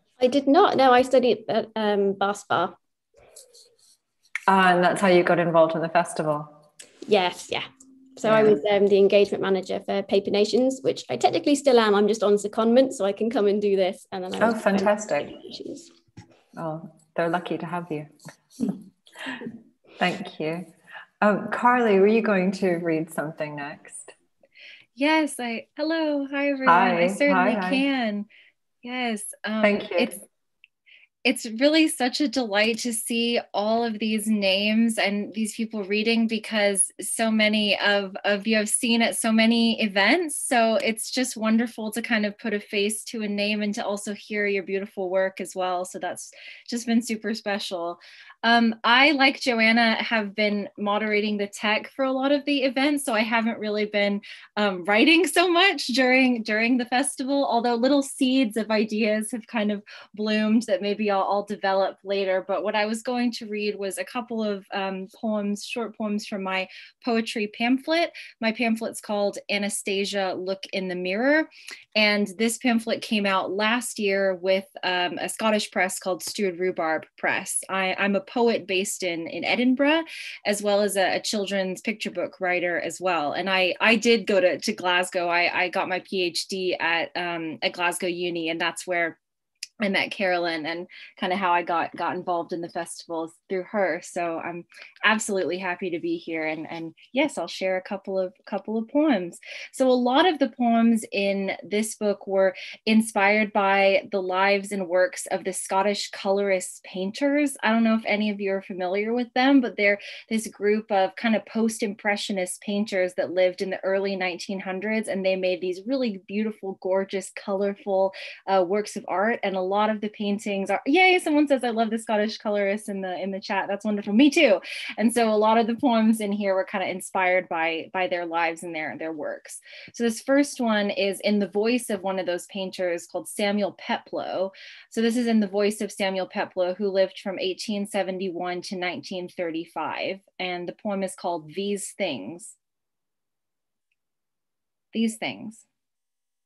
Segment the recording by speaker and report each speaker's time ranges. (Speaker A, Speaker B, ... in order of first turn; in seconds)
Speaker A: 0.2-2.8, 7.1-15.9
Speaker B: 4.5-6.6, 8.2-8.6, 14.4-15.3, 16.6-18.1, 18.7-19.4, 20.0-20.7, 21.2-24.1, 26.6-27.8, 29.6-30.2
Speaker C: 25.0-28.3, 28.8-30.2, 31.2-89.2, 89.8-142.6, 144.9-145.7